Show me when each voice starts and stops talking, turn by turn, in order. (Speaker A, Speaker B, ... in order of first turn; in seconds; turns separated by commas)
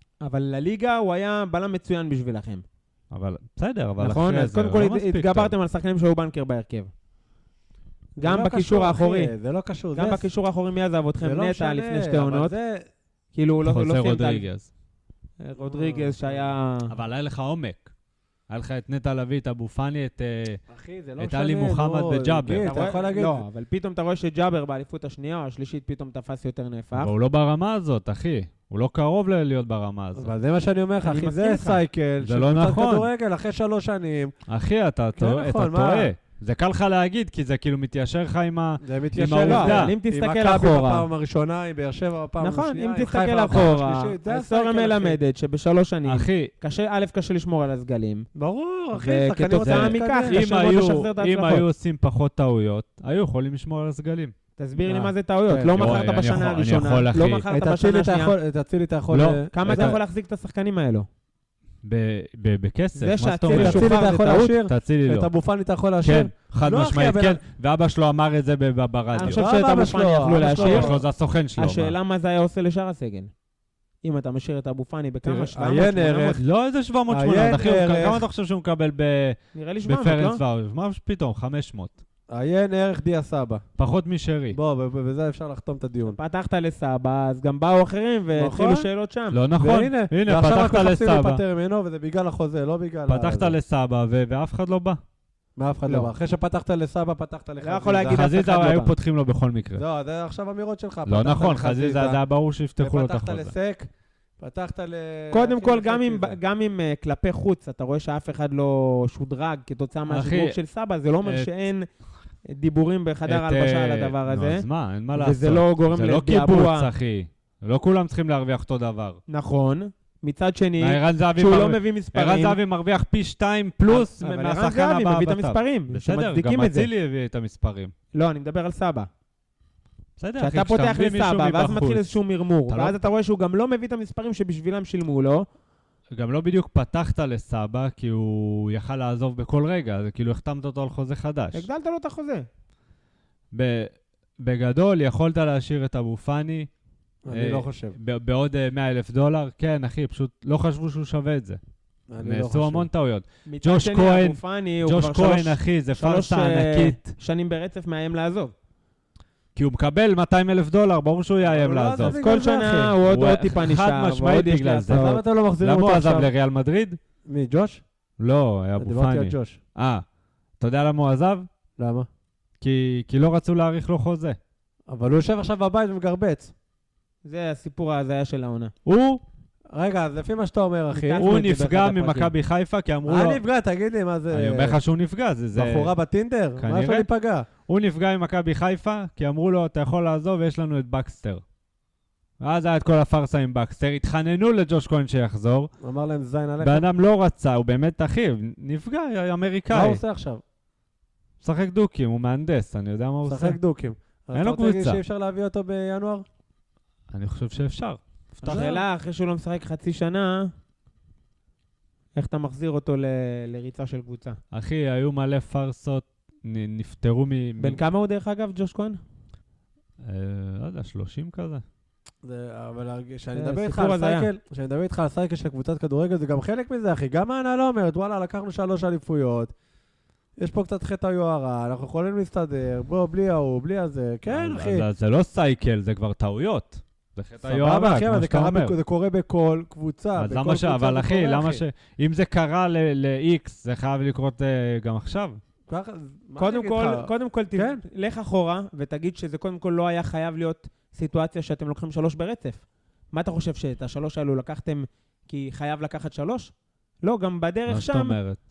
Speaker A: 0.2-2.6, Speaker B: 3.1-5.5, Speaker A: 4.0-6.9, Speaker C: 8.2-10.3, Speaker A: 8.2-9.3, Speaker A: 9.9-12.5, Speaker C: 11.2-12.9, Speaker A: 13.3-14.4, Speaker B: 13.6-14.7, Speaker A: 15.4-16.9, Speaker C: 15.6-16.5, Speaker B: 16.9-17.9, Speaker B: 18.5-20.6, Speaker C: 20.7-23.4, Speaker B: 21.2-22.7, Speaker A: 22.6-27.1, Speaker B: 26.9-30.3, Speaker C: 30.1-34.4, Speaker A: 31.0-31.8, Speaker B: 32.2-33.1, Speaker B: 34.5-40.0, Speaker C: 35.2-36.1, Speaker C: 38.8-45.2, Speaker A: 39.4-41.1, Speaker A: 42.4-48.3, Speaker B: 46.0-46.5, Speaker C: 48.4-50.5, Speaker A: 48.9-51.7, Speaker B: 49.6-54.3, Speaker A: 54.6-58.4, Speaker C: 54.9-56.1, Speaker B: 55.7-57.4, Speaker C: 57.5-60.0, Speaker B: 59.1-60.0, Speaker A: 59.5-61.1, Speaker B: 61.8-65.3, Speaker A: 63.0-64.5, Speaker C: 63.5-67.4, Speaker B: 66.0-69.5, Speaker A: 69.1-71.0, Speaker C: 69.2-71.0, Speaker B: 70.4-72.0, Speaker A: 71.6-73.3, Speaker A: 74.0-76.4, Speaker C: 75.2-76.4, Speaker B: 76.4-82.0, Speaker C: 77.1-78.2, Speaker A: 79.5-80.4, Speaker C: 82.3-83.6, Speaker B: 83.8-84.6, Speaker C: 84.5-86.2, Speaker A: 86.1-89.4, Speaker C: 88.3-88.9, Speaker B: 89.3-91.4, Speaker C: 89.6-93.5, Speaker B: 93.1-95.0, Speaker C: 95.6-98.2, Speaker A: 97.6-98.9, Speaker B: 98.1-99.8, Speaker C: 99.8-102.2, Speaker B: 101.1-103.5, Speaker C: 102.8-106.4, Speaker A: 105.3-111.9, Speaker B: 110.1-110.6, Speaker B: 111.2-111.5, Speaker A: 112.5-116.9, Speaker B: 113.3-119.2, Speaker A: 119.3-122.6, Speaker B: 120.8-127.9, Speaker A: 123.9-126.9, Speaker A: 128.1-129.1, Speaker B: 130.2-133.0, Speaker A: 130.4-135.5, Speaker B: 136.1-141.7, Speaker A: 141.5-142.5, Speaker B: 143.5-146.7, Speaker C: 147.2-148.0, Speaker B: 147.3-151.6, Speaker C: 152.1-152.9, Speaker B: 152.2-157.2, Speaker A: 153.5-158.5, Speaker B: 159.6-162.2, Speaker C: 161.4-163.0, Speaker A: 162.1-165.2, Speaker B: 163.0-167.0, Speaker C: 164.9-166.3, Speaker C: 167.3-167.8, Speaker B: 168.2-170.0, Speaker C: 168.8-169.6, Speaker B: 170.6-171.5, Speaker C: 171.8-172.1, Speaker B: 172.6-174.4, Speaker C: 174.9-176.5, Speaker A: 177.2-178.7, Speaker B: 178.9-179.2, Speaker C: 179.7-181.4, Speaker A: 180.9-182.3, Speaker B: 181.2-183.4, Speaker C: 183.1-184.8, Speaker B: 184.3-185.9, Speaker C: 185.6-187.5, Speaker B: 186.6-187.1, Speaker B: 187.7-191.4, Speaker B: 192.4-195.7, Speaker C: 195.8-196.9, Speaker B: 196.6-200.0, Speaker C: 199.7-200.4, Speaker B: 201.4-203.6, Speaker C: 203.2-206.2, Speaker B: 204.3-205.0, Speaker B: 207.1-208.8, Speaker A: 208.4-210.5, Speaker A: 212.2-214.4, Speaker B: 214.5-217.8, Speaker A: 217.6-219.0, Speaker B: 220.0-221.6, Speaker C: 222.2-229.5, Speaker A: 223.3-224.3, Speaker C: 230.4-234.9, Speaker B: 234.3-238.8, Speaker C: 237.4-241.6, Speaker B: 240.2-245.4, Speaker C: 245.7-247.8, Speaker A: 246.4-258.2, Speaker B: 257.7-258.4